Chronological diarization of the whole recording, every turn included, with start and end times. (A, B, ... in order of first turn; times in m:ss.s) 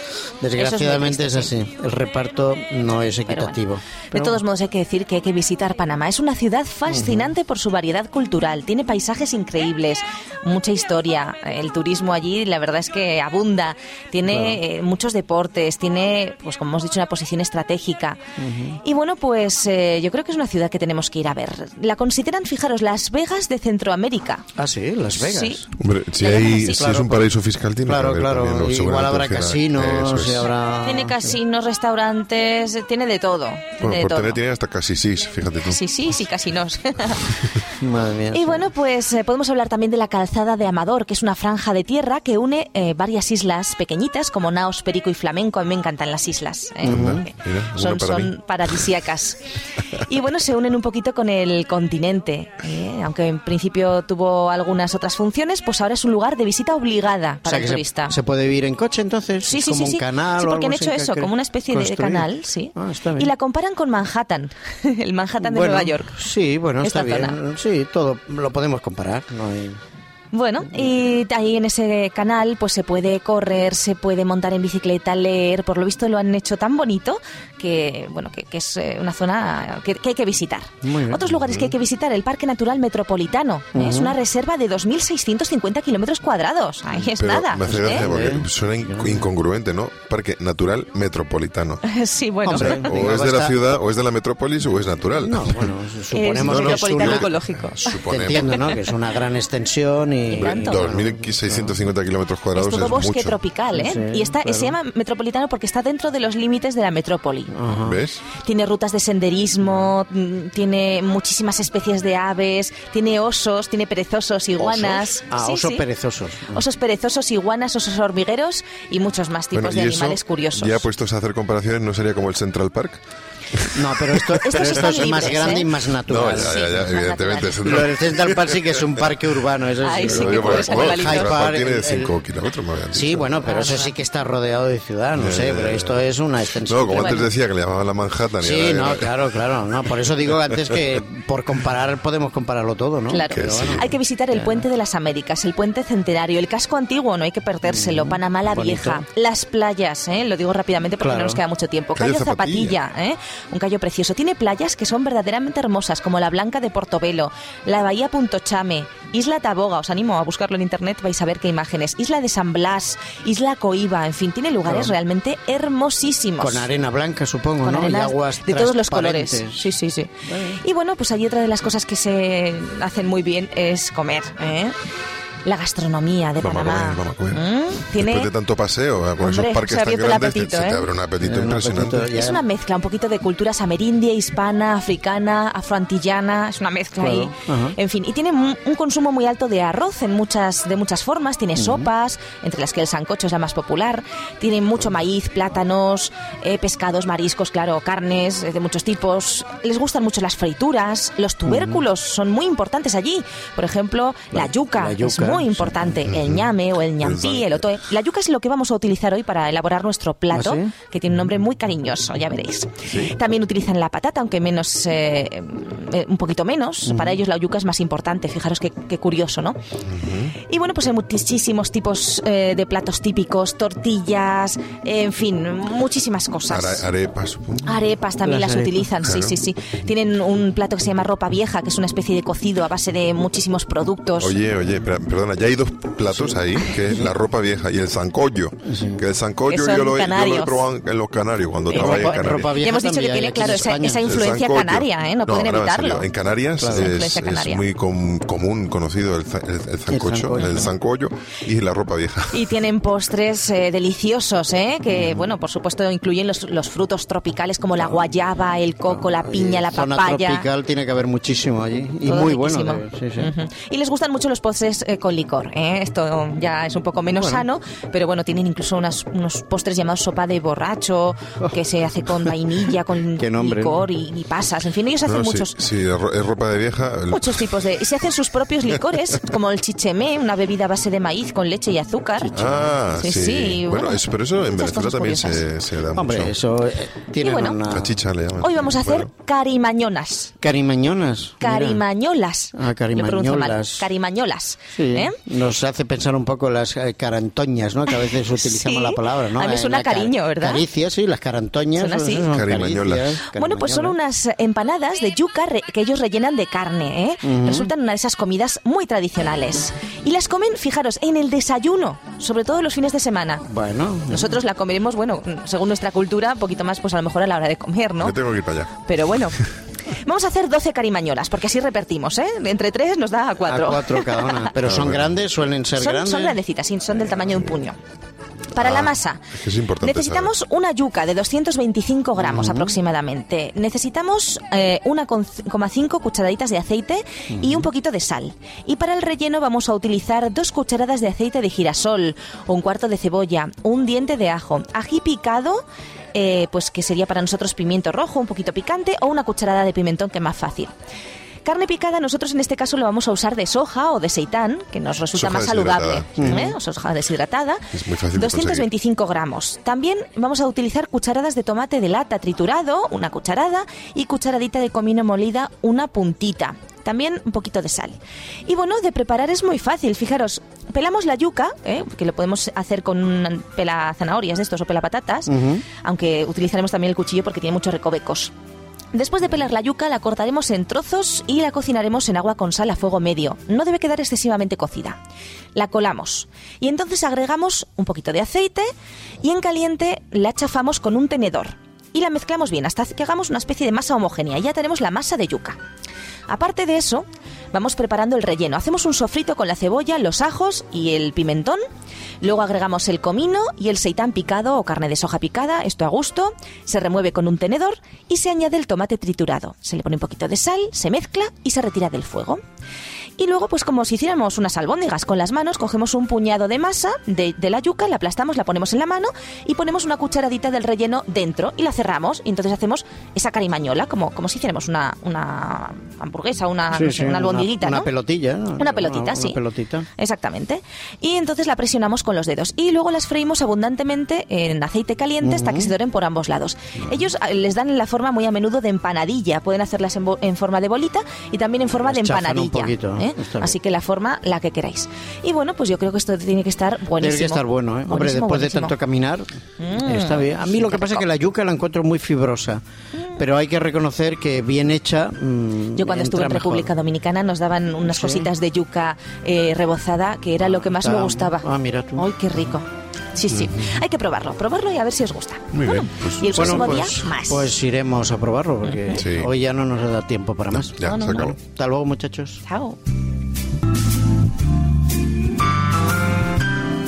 0:00.4-0:04.4 A
0:00.6-0:01.5 B
0:03.3-0:03.6 B
0:04.1-0:18.2 B
0:06.9-0:07.3 A
0:14.2-0:14.6 A
0:18.4-0:18.8 A
0:18.8-0:24.4 B
0:24.6-0:25.7 A
0:25.1-0:25.7 B
0:25.8-0:30.5 C
0:26.2-0:26.8 B
0:26.6-0:27.3 A
0:27.8-0:31.4 A
0:30.8-0:34.4 B
0:33.8-0:35.8 C
0:35.6-0:37.7 B
0:37.8-0:38.7 A
0:38.3-0:58.2 B
0:46.8-0:47.2 A
0:46.8-0:48.3 C
0:57.4-1:03.3 A
0:59.4-1:06.2 B
1:05.4-1:09.8 A
1:06.8-1:07.4 B
1:10.3-1:28.0 B
1:20.8-1:21.2 A
1:21.3-1:21.7 C
1:23.7-1:24.1 A
1:27.0-1:31.8 C
1:27.7-1:29.3 A
1:31.8-1:32.9 B
1:32.4-1:33.6 A
1:32.5-1:35.7 C
1:35.2-1:37.3 A
1:36.1-1:38.8 B
1:36.3-1:38.8 C
1:38.1-1:41.8 A
1:40.3-1:40.9 B
1:40.3-1:43.4 C
1:42.5-1:47.6 B
1:43.7-1:44.8 A
1:47.5-1:48.0 A
1:47.8-1:48.2 C
1:48.3-1:55.8 B
1:54.6-1:56.6 A
1:56.5-2:00.9 B
1:59.5-2:03.0 C
2:03.5-2:04.7 C
2:03.8-2:06.8 A
2:04.4-2:05.8 B
2:06.1-2:08.7 C
2:06.3-2:07.8 B
2:07.6-2:12.1 A
2:09.8-2:11.4 B
2:10.0-2:13.6 C
2:12.9-2:17.3 A
2:13.4-2:13.9 B
2:15.1-2:16.0 C
2:16.6-2:19.2 C
2:16.9-2:17.2 B
2:18.4-2:24.6 A
2:23.1-2:46.7 B
2:23.3-2:23.9 C
2:27.6-2:29.0 A
2:31.0-2:31.4 A
2:32.0-2:32.8 C
2:44.7-2:44.9 A
2:46.4-2:49.7 A
2:47.6-2:54.8 B
2:50.3-2:50.6 A
2:55.4-2:58.3 B
2:56.4-2:57.4 C
2:57.9-3:02.1 C
2:59.2-3:00.9 B
3:01.2-3:02.4 A
3:02.1-3:39.6 B
3:07.0-3:07.8 A
3:11.5-3:11.9 A
3:21.4-3:21.8 A
3:24.3-3:26.0 A
3:26.1-3:26.5 C
3:27.0-3:27.6 C
3:30.3-3:30.7 A
3:32.8-3:33.1 C
3:36.9-3:37.2 A
3:39.9-3:40.4 C
3:40.4-3:46.8 B
3:46.5-3:47.8 C
3:47.6-3:54.4 B
3:48.2-3:48.9 A
3:49.0-3:49.4 C
3:54.2-4:02.6 C
3:56.1-3:57.1 A
3:58.7-3:59.0 A
3:59.5-4:00.7 B
4:01.7-4:06.1 B
4:01.7-4:04.2 A
4:04.0-4:12.5 C
4:06.6-4:06.9 A
4:06.6-4:07.6 B
4:09.9-4:10.7 A
4:10.4-4:10.7 B
4:12.3-4:20.5 B
4:14.9-4:15.3 A
4:18.9-4:23.3 A
4:22.0-4:35.6 B
4:27.1-4:27.4 A
4:33.2-4:33.9 A
4:35.0-4:37.5 C
4:37.1-4:42.3 B
4:42.2-4:42.8 A
4:42.3-4:46.4 C
4:43.0-4:45.4 B
4:45.9-4:48.0 A
4:47.2-4:47.6 B
4:47.7-4:49.1 C
4:48.4-4:50.3 B
4:50.4-4:51.8 A
4:51.4-4:55.2 B
4:52.5-4:53.9 A
4:54.7-5:04.0 A
4:58.3-5:00.6 B
5:01.8-5:02.3 B
5:02.2-5:03.2 C
5:03.3-5:13.4 B
5:07.2-5:07.7 A
5:13.5-5:14.4 A
5:14.1-5:18.2 B
5:18.0-5:18.7 C
5:18.8-5:19.4 B
5:19.9-5:24.5 B
5:23.4-5:26.4 A
5:24.6-5:25.1 C
5:25.8-5:27.8 B
5:28.5-5:29.3 B
5:28.6-5:30.3 C
5:29.8-5:45.6 B
5:32.2-5:32.8 A
5:37.3-5:37.7 A
5:46.1-5:50.7 B
5:51.4-6:18.3 B
5:55.1-5:56.4 C
5:56.2-5:56.6 A
5:57.7-5:58.7 C
6:15.3-6:15.6 A
6:18.9-6:25.0 B
6:25.5-6:28.6 B
6:29.2-6:35.6 B
6:36.3-6:41.6 B
6:42.2-6:52.4 B
6:53.2-7:07.9 B
7:06.7-7:09.9 A
7:08.6-7:09.4 B
7:10.0-7:28.8 B
7:15.2-7:15.7 A
7:21.9-7:23.6 A
7:27.0-7:29.3 A
7:29.6-7:31.0 B
7:29.8-7:32.6 A
7:33.2-7:36.7 A
7:35.8-7:47.5 B
7:37.9-7:38.3 A
7:40.4-7:42.1 A
7:43.3-7:43.7 C
7:45.5-7:46.8 C
7:46.3-7:52.4 A
7:48.6-7:49.0 B
7:48.9-7:49.3 C
7:50.5-7:51.4 C
7:50.8-7:51.3 B
7:52.4-7:52.8 B